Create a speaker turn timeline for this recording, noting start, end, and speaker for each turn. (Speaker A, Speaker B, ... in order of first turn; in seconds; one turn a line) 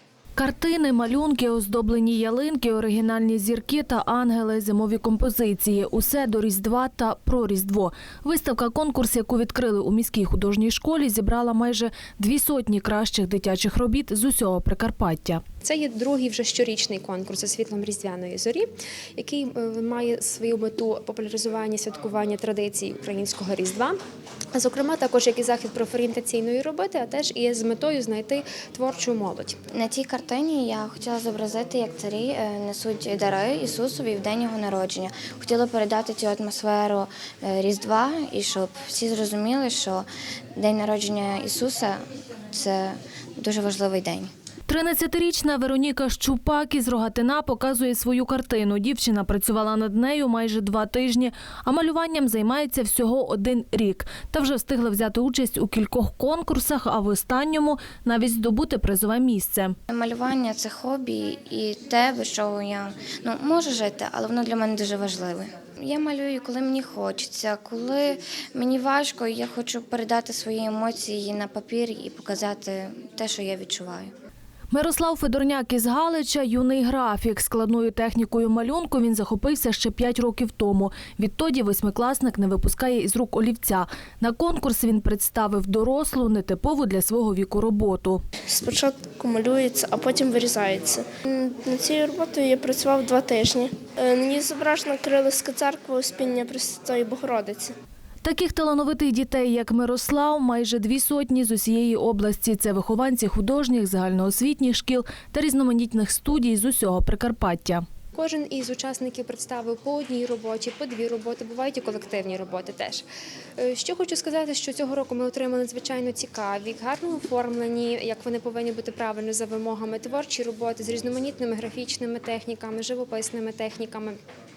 Speaker A: 0.3-15.4
Speaker B: 15.6-24.0
Speaker B: 24.5-29.6
Speaker C: 29.7-44.3
Speaker A: 44.7-59.7
Speaker C: 59.9-74.1
Speaker A: 74.7-88.2
Speaker D: 88.5-97.7
Speaker A: 98.2-107.8
Speaker B: 108.1-113.0
Speaker B: 113.6-124.2